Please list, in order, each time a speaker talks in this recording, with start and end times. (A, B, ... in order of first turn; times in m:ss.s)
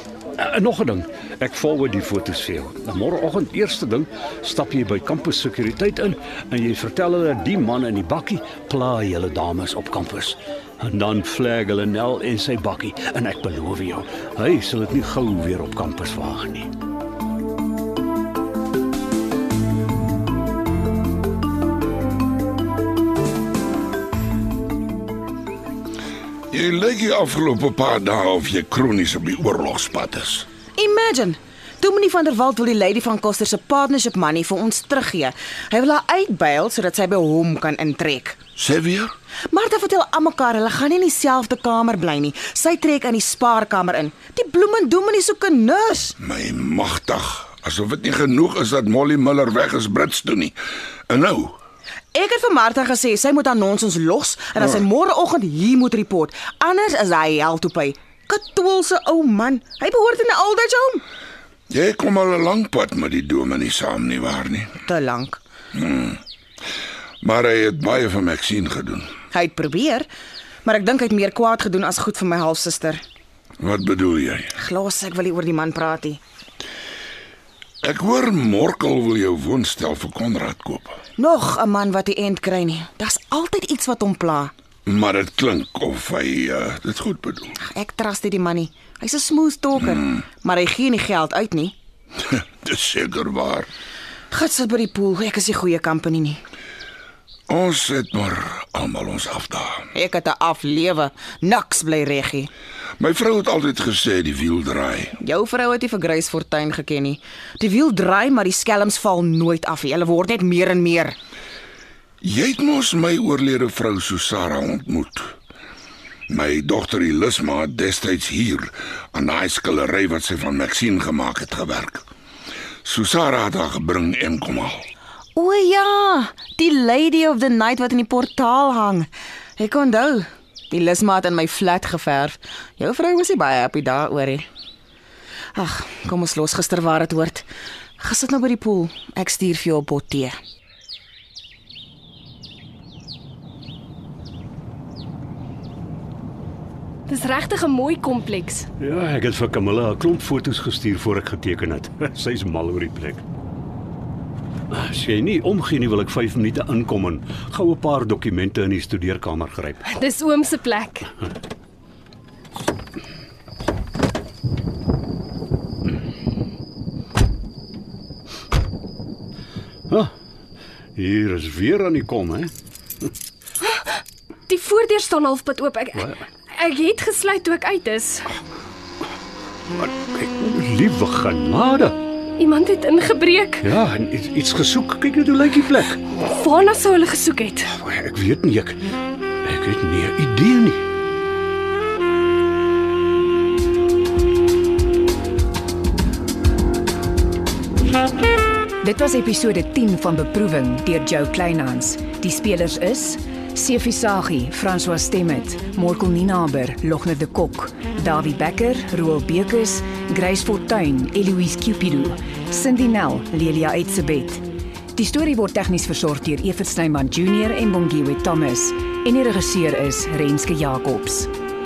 0:00.4-0:16.7 A
0:26.5-0:30.5 B
0:30.8-0:38.4 C
0:38.6-0:39.1 B
0:39.5-0:46.2 C
0:46.2-0:50.6 B
0:51.1-0:51.6 B
0:52.1-1:01.0 C
1:01.7-1:04.8 B
1:04.9-1:05.4 C
1:05.8-1:06.2 B
1:07.2-1:09.1 B
1:09.3-1:10.1 C
1:10.6-1:13.0 C
1:13.6-1:14.5 B
1:14.6-1:16.2 C
1:17.8-1:21.0 B
1:21.2-1:24.5 C
1:24.9-1:27.6 B
1:27.6-1:31.8 C
1:32.6-1:33.7 B
1:34.3-1:36.4 C
1:37.5-1:39.8 B
1:39.9-1:42.5 C
1:43.0-1:45.1 B
1:45.2-1:51.2 C
1:52.2-1:55.3 B
1:56.3-2:02.0 B
2:02.8-2:04.8 B
2:05.4-2:14.5 C
2:15.6-2:17.5 C
2:18.0-2:20.4 C
2:27.1-2:28.7 D
2:28.8-2:33.2 A
2:34.7-2:39.8 A
2:39.9-2:41.1 D
2:51.0-2:52.5 A
2:54.5-2:58.3 D
2:59.8-3:02.0 A
3:02.4-3:03.7 D
3:03.6-3:06.1 A
3:06.1-3:07.7 D
3:07.7-3:08.8 A
3:09.4-3:10.8 A
3:18.8-3:34.4 E
3:35.0-3:41.3 E